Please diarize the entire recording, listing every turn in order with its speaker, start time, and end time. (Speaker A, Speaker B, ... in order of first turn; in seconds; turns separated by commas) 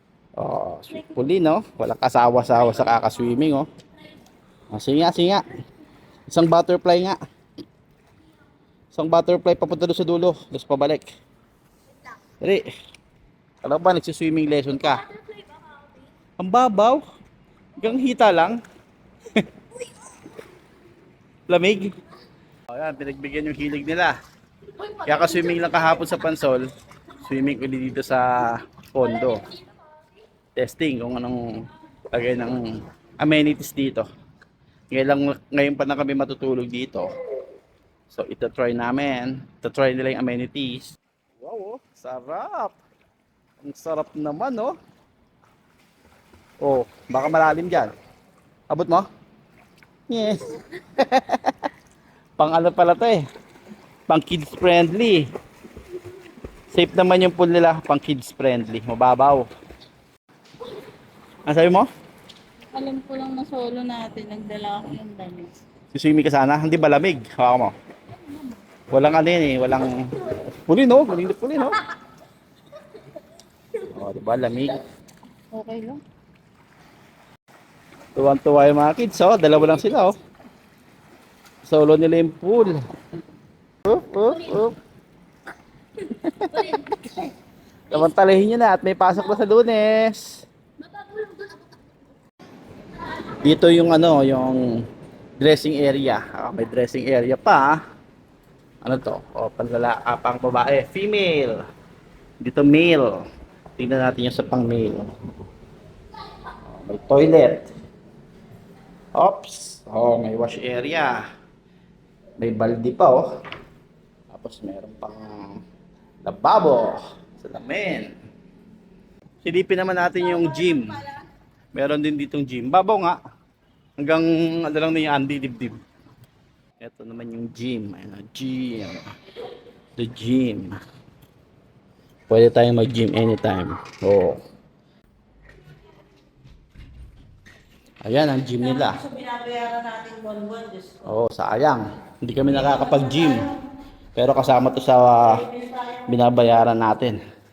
Speaker A: 0.4-3.7, Speaker A: 4.7-5.5, Speaker A: 6.3-7.2, Speaker A: 8.9-11.1, Speaker A: 12.4-12.7, Speaker A: 13.6-15.1, Speaker A: 16.4-17.0, Speaker A: 17.8-18.6, Speaker A: 21.5-21.9, Speaker A: 22.7-24.2, Speaker A: 24.8-29.5, Speaker A: 30.6-34.1, Speaker A: 34.9-37.1, Speaker A: 38.1-42.8, Speaker A: 43.6-44.8, Speaker A: 46.6-47.9, Speaker A: 48.7-49.1, Speaker A: 50.1-51.7, Speaker A: 52.4-53.2, Speaker A: 54.1-55.3, Speaker A: 56.7-59.5, Speaker A: 61.5-61.9, Speaker B: 62.7-65.5, Speaker A: 65.9-67.7, Speaker A: 68.9-71.8, Speaker A: 73.8-74.8, Speaker B: 75.5-76.0, Speaker A: 78.2-80.2, Speaker A: 81.7-82.8, Speaker A: 83.8-84.8, Speaker A: 86.0-87.3, Speaker A: 87.9-90.5, Speaker A: 93.2-94.8, Speaker A: 95.4-97.8, Speaker A: 98.8-101.6, Speaker A: 102.4-103.3, Speaker A: 103.8-105.1, Speaker A: 106.7-107.7, Speaker A: 109.2-111.2, Speaker A: 112.4-113.3, Speaker A: 114.3-115.6, Speaker A: 116.2-118.1, Speaker A: 119.4-121.1, Speaker A: 121.7-123.2, Speaker A: 124.0-125.8, Speaker A: 126.8-129.1, Speaker A: 130.0-130.8, Speaker A: 132.3-134.4, Speaker A: 138.0-139.1, Speaker B: 139.0-141.0, Speaker A: 141.0-143.6, Speaker A: 144.2-147.2